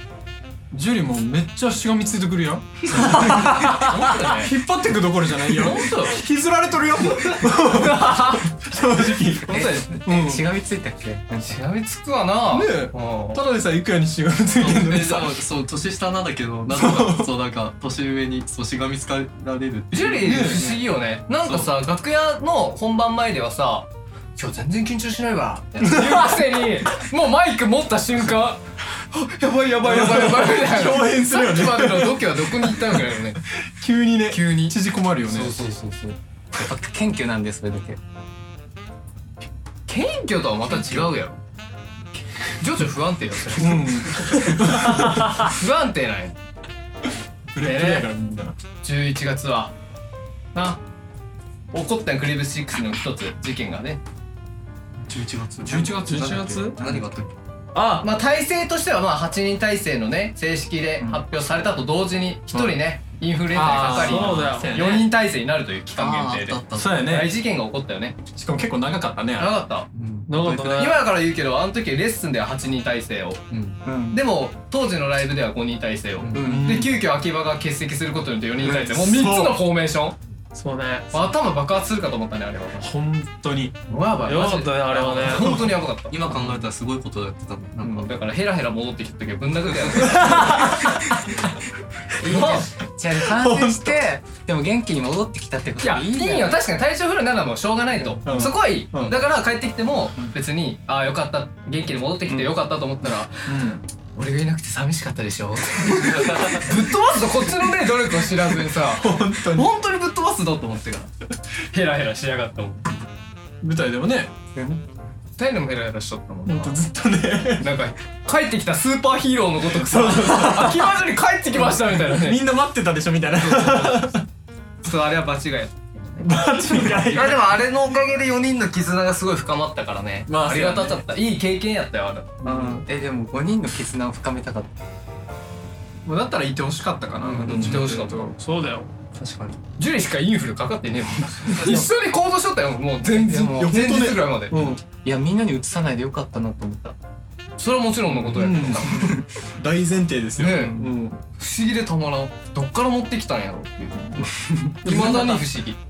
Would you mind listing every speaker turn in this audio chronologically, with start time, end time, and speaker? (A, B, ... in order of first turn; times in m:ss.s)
0:00.7-0:10.4 A
0:02.9-0:04.5 B
0:05.5-0:06.2 B
0:07.4-0:08.4 B
0:09.5-0:11.6 C
0:09.5-0:09.8 B
0:11.4-0:13.4 B
0:12.5-0:15.4 A
0:14.6-0:20.8 D
0:16.7-0:17.4 A
0:19.9-0:33.4 B
0:20.2-0:20.8 A
0:21.4-0:21.7 D
0:25.8-0:26.5 A
0:29.8-0:35.6 A
0:34.3-0:34.8 B
0:35.3-0:36.1 B
0:36.5-0:38.0 C
0:39.9-0:41.4 B
0:42.6-0:46.4 B
0:43.6-0:45.4 A
0:47.5-0:48.6 A
0:47.6-0:48.1 B
0:48.8-0:49.7 B
0:50.5-0:50.8 B
0:51.7-0:54.0 B
0:55.0-0:57.3 D
0:55.6-0:57.0 A
0:56.0-0:56.8 E
0:57.7-0:58.0 E
0:58.0-1:08.2 B
1:02.5-1:02.8 A
1:03.5-1:05.1 A
1:03.9-1:04.8 E
1:06.0-1:07.1 D
1:06.7-1:07.3 A
1:08.3-1:09.5 A
1:09.4-1:09.9 B
1:09.9-1:11.0 D
1:10.3-1:11.0 E
1:10.6-1:13.4 B
1:13.5-1:13.8 D
1:13.8-1:14.2 C
1:14.1-1:20.2 B
1:16.2-1:16.4 D
1:16.3-1:16.8 C
1:16.4-1:17.0 A
1:18.7-1:19.6 A
1:20.5-1:21.1 E
1:21.1-1:22.9 B
1:22.8-1:23.7 A
1:23.9-1:26.2 B
1:24.2-1:25.5 E
1:25.3-1:25.7 A
1:26.1-1:28.1 D
1:27.8-1:31.0 B
1:30.1-1:31.0 A
1:32.1-1:36.6 C
1:32.3-1:32.6 A
1:32.3-1:32.6 B
1:33.2-1:34.0 A
1:35.8-1:53.0 B
1:38.0-1:38.4 C
1:38.2-1:39.2 A
1:43.5-1:43.8 A
1:48.7-1:49.7 A
1:53.6-1:54.5 A
1:54.5-1:54.8 C
1:55.4-1:56.8 B
1:56.4-1:57.7 A
1:57.6-2:02.5 B
1:59.7-2:01.0 A
2:01.6-2:04.2 A
2:03.4-2:04.1 B
2:04.8-2:12.8 B
2:06.2-2:07.6 A
2:10.3-2:11.0 A
2:12.4-2:12.8 D
2:12.4-2:14.7 C
2:16.0-2:18.4 A
2:17.2-2:18.3 B
2:18.3-2:18.9 E
2:19.1-2:19.6 D
2:19.8-2:24.8 B
2:23.1-2:23.8 C
2:23.5-2:24.8 A
2:25.0-2:27.0 C
2:27.6-2:29.2 B
2:28.1-2:31.2 A
2:28.9-2:29.2 C
2:30.4-2:35.8 B
2:30.5-2:30.9 C
2:34.5-2:35.4 A